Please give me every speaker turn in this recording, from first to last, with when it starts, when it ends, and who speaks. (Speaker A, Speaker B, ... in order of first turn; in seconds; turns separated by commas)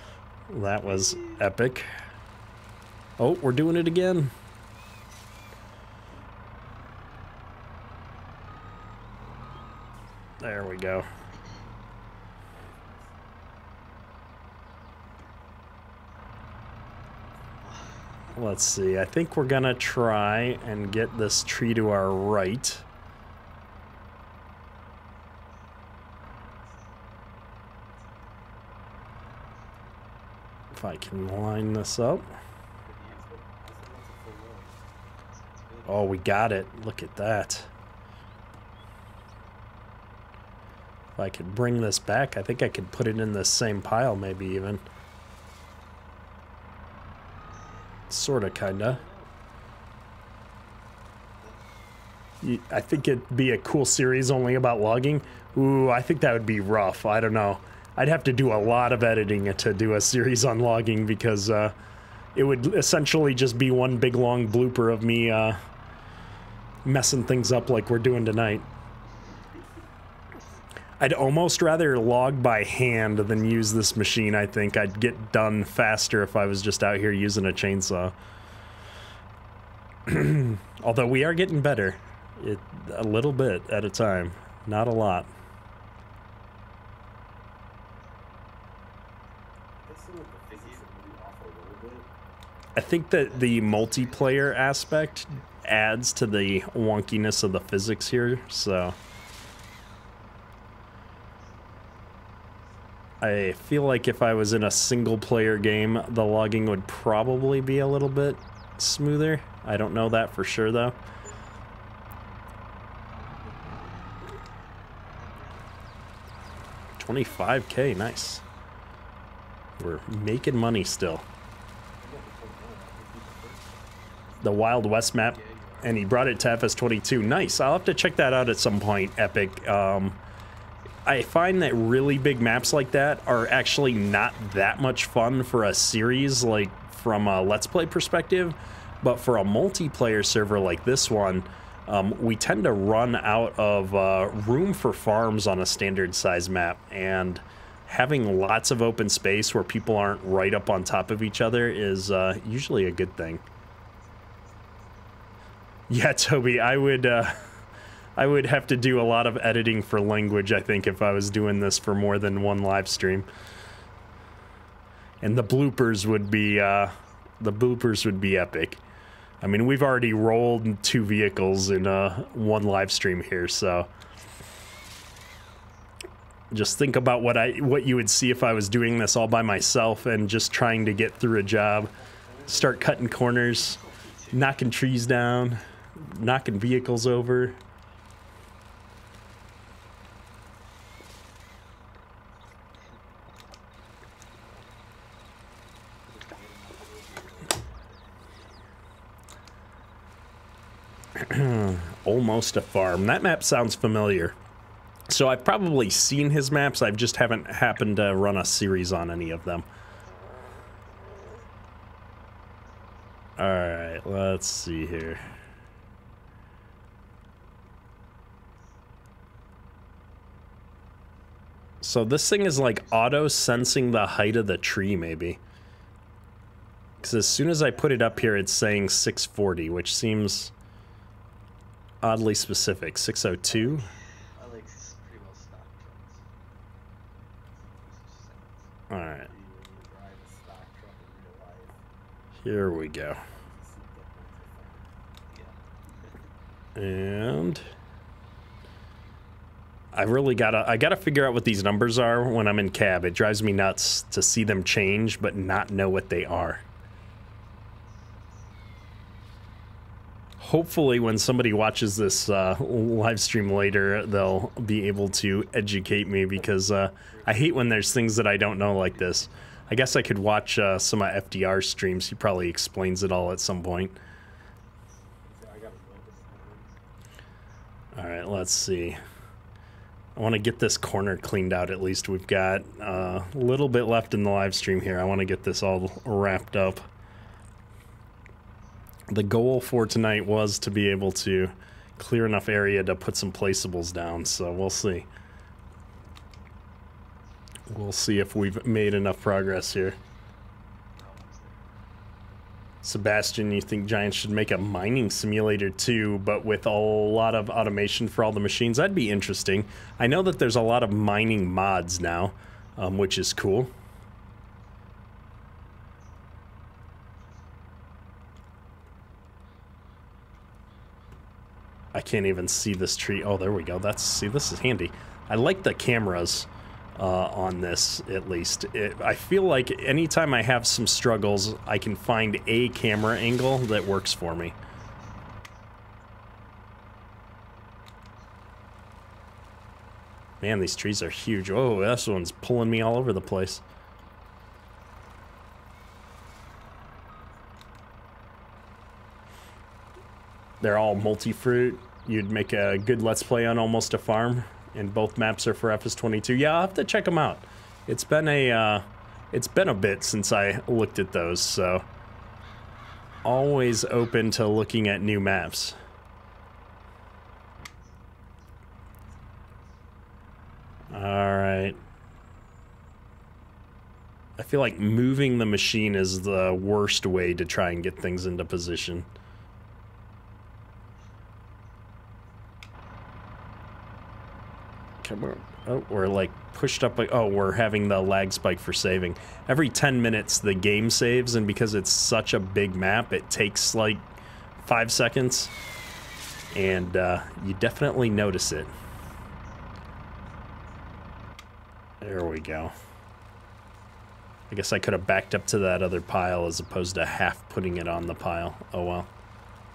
Speaker A: 0.5-1.9, Speaker B: 0.8-1.4, Speaker A: 3.2-4.3, Speaker A: 10.4-11.1, Speaker C: 12.5-13.1, Speaker B: 17.6-18.0, Speaker A: 18.4-22.8, Speaker B: 29.2-29.6, Speaker A: 30.7-32.3, Speaker C: 32.8-34.8, Speaker B: 32.9-33.2, Speaker B: 35.2-36.2, Speaker A: 35.9-37.7, Speaker A: 41.2-44.9, Speaker A: 48.1-49.0, Speaker B: 48.6-49.3, Speaker B: 51.4-51.8, Speaker A: 52.4-61.8, Speaker B: 55.2-55.6, Speaker A: 62.4-65.6, Speaker A: 66.8-68.7, Speaker A: 71.0-78.1, Speaker A: 80.1-85.3, Speaker C: 89.8-92.1, Speaker B: 90.5-91.0, Speaker A: 92.8-99.0, Speaker B: 93.2-95.7, Speaker A: 103.2-111.0, Speaker B: 113.2-113.7, Speaker C: 113.5-113.9, Speaker B: 115.0-115.7, Speaker A: 117.0-118.4, Speaker A: 119.8-121.2, Speaker C: 122.0-124.8, Speaker A: 124.4-130.2, Speaker B: 125.2-126.0, Speaker A: 131.1-153.4, Speaker C: 132.6-133.9, Speaker C: 154.4-154.9, Speaker A: 155.9-157.4, Speaker A: 158.2-163.3, Speaker A: 165.2-168.8, Speaker A: 169.4-173.9, Speaker A: 176.5-181.9, Speaker C: 182.0-183.0, Speaker A: 182.5-183.8, Speaker B: 183.5-184.7, Speaker A: 184.3-187.6, Speaker C: 196.1-197.7, Speaker B: 197.5-198.4, Speaker A: 201.2-204.3, Speaker A: 205.1-209.7, Speaker A: 213.4-215.2, Speaker A: 221.8-225.4, Speaker B: 222.7-223.2, Speaker C: 227.0-227.8, Speaker A: 227.0-230.5, Speaker B: 227.5-228.4, Speaker A: 232.0-233.9, Speaker B: 234.4-236.2, Speaker B: 237.6-238.7, Speaker A: 238.9-239.3, Speaker C: 239.3-241.8, Speaker A: 242.4-243.2, Speaker C: 243.1-244.9, Speaker B: 245.3-246.1, Speaker A: 246.8-247.7, Speaker A: 249.9-256.6, Speaker A: 260.4-274.0, Speaker B: 267.1-267.6, Speaker B: 268.9-270.0, Speaker C: 275.2-276.7, Speaker A: 277.9-279.0, Speaker A: 280.2-286.9, Speaker A: 289.1-295.1, Speaker A: 297.7-300.0, Speaker B: 300.9-301.6, Speaker A: 302.8-313.7, Speaker A: 321.9-334.6, Speaker A: 340.4-343.6, Speaker A: 350.6-361.9, Speaker A: 363.2-365.8, Speaker A: 370.9-371.8, Speaker A: 374.4-379.1, Speaker A: 385.0-394.1, Speaker A: 394.7-395.5, Speaker A: 396.5-398.7, Speaker A: 402.0-402.7, Speaker A: 404.5-409.1